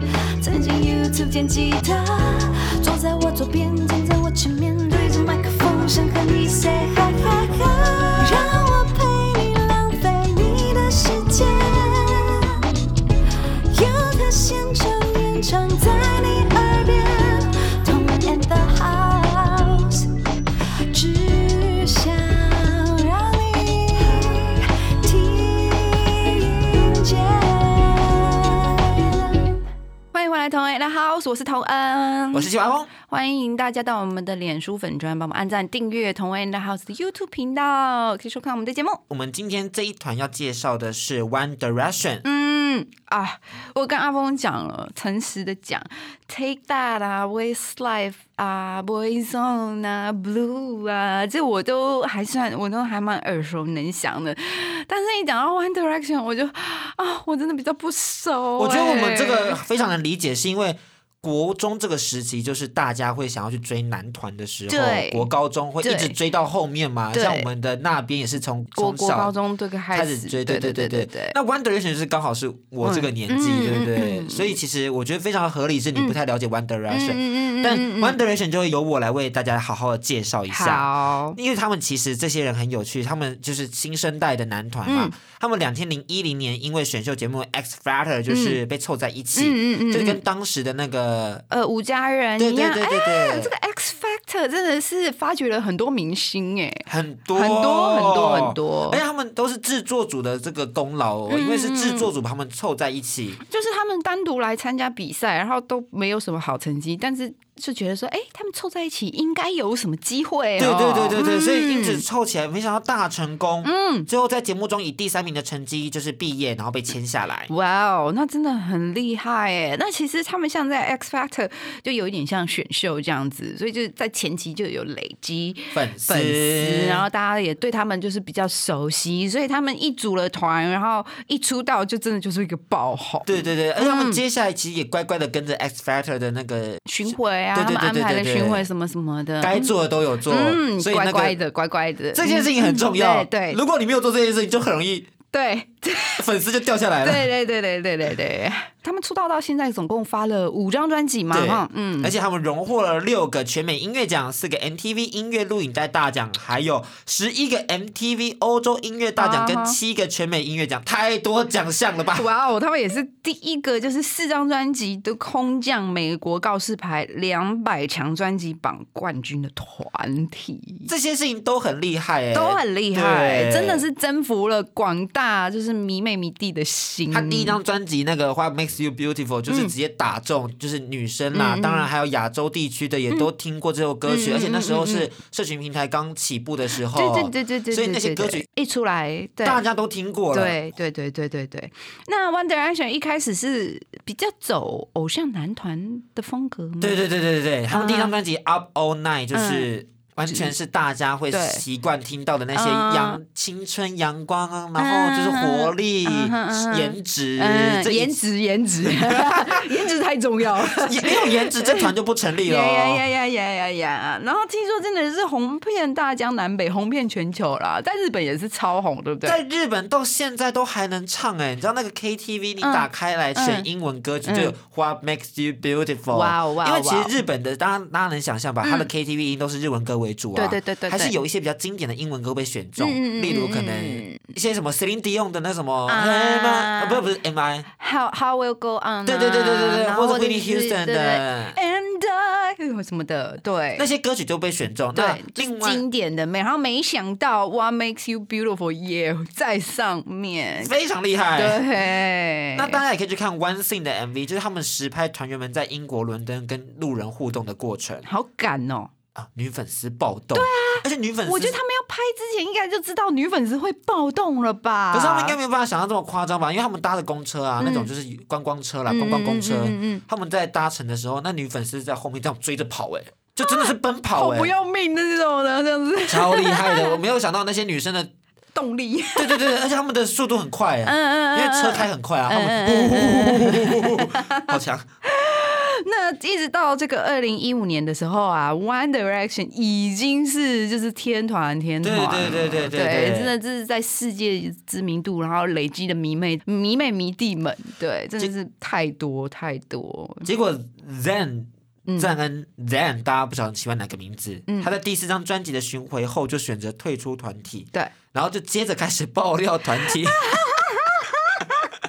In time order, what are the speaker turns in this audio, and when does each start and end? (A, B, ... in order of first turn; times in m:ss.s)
0:00.4-0:12.6 A
0:13.7-0:20.1 A
0:20.9-0:29.6 A
0:30.1-0:32.5 B
0:32.3-0:32.9 C
0:33.0-0:39.0 B
0:39.1-0:42.3 C
0:42.2-0:59.6 B
0:58.6-1:09.3 C
1:04.7-1:05.3 B
1:05.8-1:06.2 B
1:07.1-1:07.5 B
1:08.8-1:11.4 B
1:09.9-1:31.4 C
1:12.8-1:14.6 B
1:16.9-1:18.2 B
1:20.5-1:21.4 B
1:24.9-1:25.1 B
1:28.3-1:28.6 B
1:29.4-1:30.2 B
1:31.5-1:39.0 B
1:32.4-1:33.5 C
1:36.9-1:43.4 C
1:41.3-1:42.1 B
1:43.4-1:52.0 B
1:50.6-1:57.5 C
1:53.6-1:54.1 B
1:57.5-2:14.2 B
2:05.7-2:07.1 C
2:13.3-2:18.7 C
2:16.9-2:19.7 B
2:19.4-2:21.4 C
2:20.3-2:23.6 B
2:22.1-2:25.1 C
2:25.3-2:26.3 B
2:26.2-2:27.3 C
2:27.0-2:32.2 B
2:31.3-2:42.3 C
2:39.2-2:39.8 B
2:42.2-2:50.9 B
2:50.9-2:53.9 C
2:52.3-2:57.6 B
2:57.1-3:08.4 C
2:59.5-2:59.7 B
3:01.3-3:01.9 B
3:04.1-3:05.1 B
3:06.9-3:09.6 B
3:09.4-3:10.6 C
3:10.3-3:17.0 B
3:16.8-3:28.2 C
3:17.7-3:18.1 B
3:19.3-3:19.7 B
3:20.3-3:20.5 B
3:21.3-3:21.6 B
3:22.5-3:23.2 B
3:24.8-3:31.9 B
3:28.8-3:29.7 C
3:30.7-3:33.0 C
3:32.4-3:39.4 B
3:39.2-3:57.7 C
3:42.6-3:43.7 B
3:44.2-3:44.6 B
3:46.1-3:47.2 B
3:48.6-3:48.9 B
3:50.4-3:51.2 B
3:52.8-3:54.2 B
3:55.9-3:57.1 B
3:57.8-4:03.9 B
3:59.1-4:01.6 C
4:03.8-4:05.8 C
4:04.9-4:10.7 B
4:10.6-4:11.6 C
4:11.4-4:12.8 B
4:12.6-4:18.1 C
4:18.1-4:18.9 B
4:19.2-4:21.6 C
4:20.3-4:25.4 B
4:24.9-4:34.5 C
4:27.6-4:27.9 B
4:28.9-4:30.0 B
4:33.4-4:37.0 B
4:36.1-4:38.1 C
4:38.6-4:39.5 B
4:39.2-4:44.9 C
4:40.8-5:00.3 B
4:51.8-4:53.3 C
5:00.2-5:10.4 C
5:01.9-5:02.1 B
5:10.0-5:11.7 B